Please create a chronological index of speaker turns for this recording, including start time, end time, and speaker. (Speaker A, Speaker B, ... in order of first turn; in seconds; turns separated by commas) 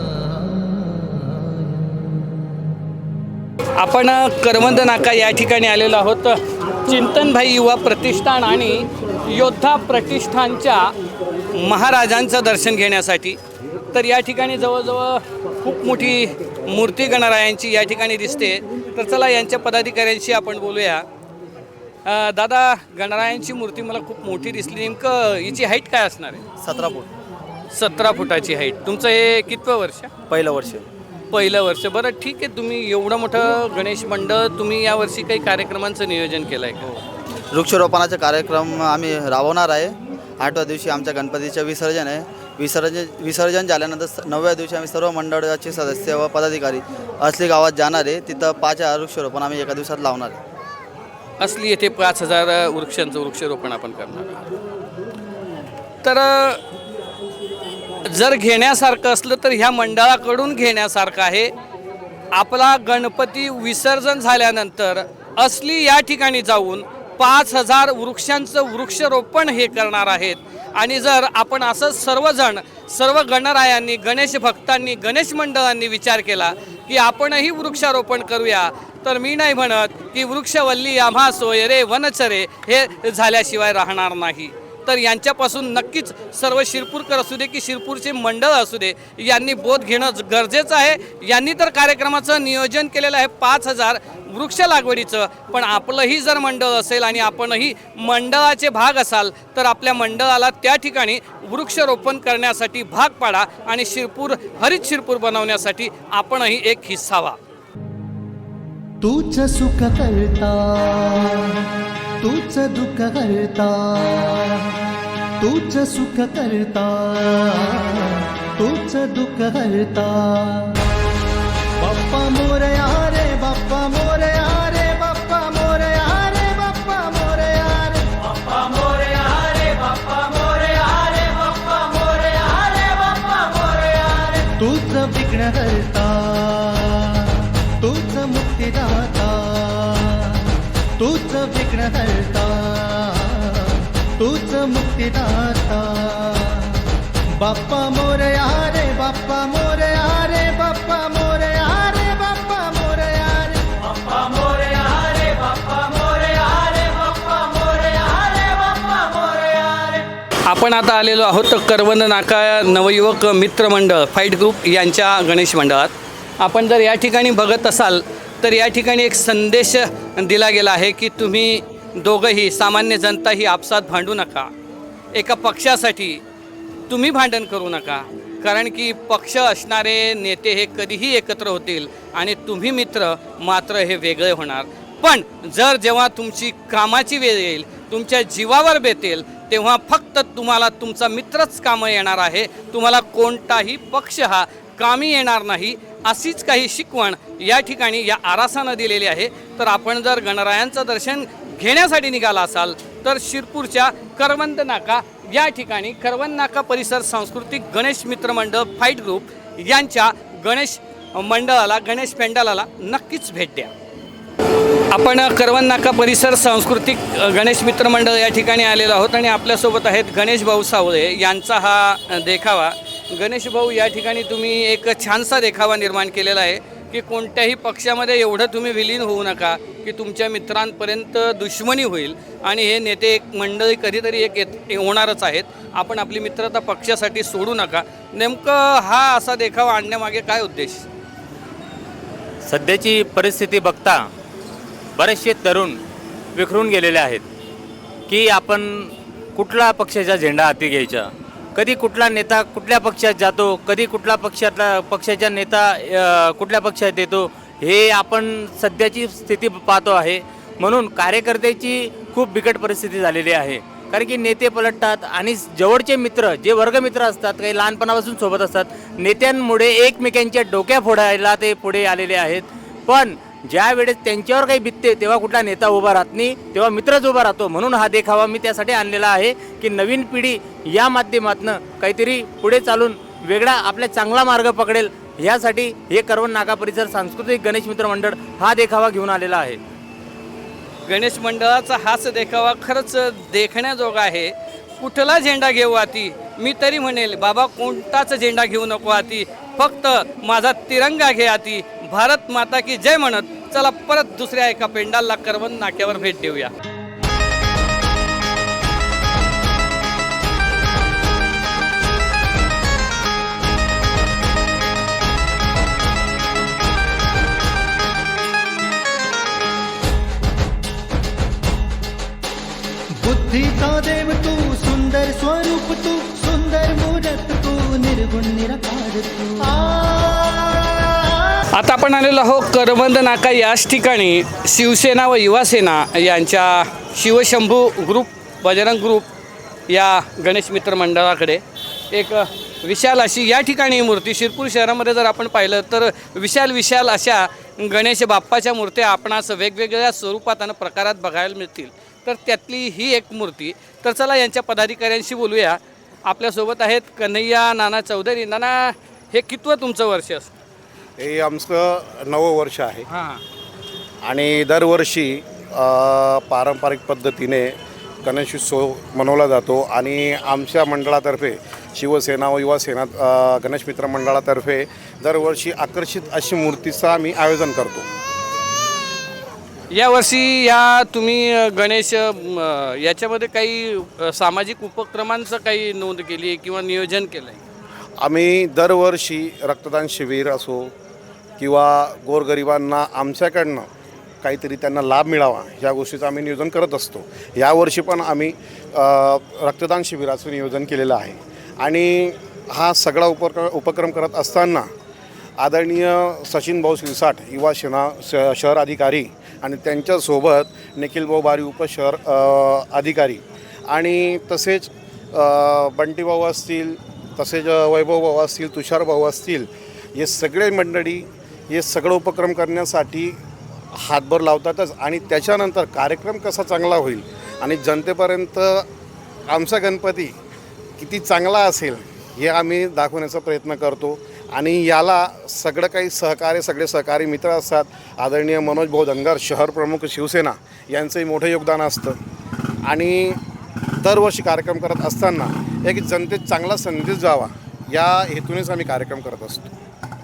Speaker A: 3.8-10.9, Speaker A: 11.5-13.4, Speaker A: 13.9-21.1, Speaker A: 22.1-26.4, Speaker B: 26.6-27.1, Speaker A: 27.7-30.1, Speaker B: 30.3-30.9, Speaker A: 31.3-36.9, Speaker B: 37.5-50.4, Speaker A: 51.4-54.4, Speaker A: 56.0-56.6, Speaker A: 58.0-61.5, Speaker A: 62.3-107.4, Speaker C: 109.1-111.6, Speaker C: 112.2-114.6, Speaker C: 115.4-120.7, Speaker C: 121.8-128.0, Speaker C: 134.6-137.3, Speaker C: 137.8-140.4, Speaker C: 141.0-146.8, Speaker C: 147.4-153.6, Speaker A: 160.4-174.5, Speaker A: 175.1-176.2, Speaker A: 176.9-213.7, Speaker A: 214.9-240.8, Speaker D: 242.4-244.1, Speaker D: 245.0-245.8, Speaker D: 246.3-247.2, Speaker D: 248.1-289.6, Speaker A: 290.9-306.5, Speaker C: 323.1-330.1, Speaker A: 331.6-339.1, Speaker A: 339.7-360.3, Speaker E: 361.0-362.9, Speaker A: 362.9-363.2, Speaker E: 364.1-377.9, Speaker A: 379.7-387.4, Speaker E: 388.0-390.7, Speaker E: 391.4-393.7, Speaker E: 394.2-404.7, Speaker E: 405.4-423.2, Speaker E: 423.7-428.7, Speaker E: 429.3-430.2, Speaker E: 430.8-442.0, Speaker E: 442.7-443.2, Speaker E: 443.8-449.5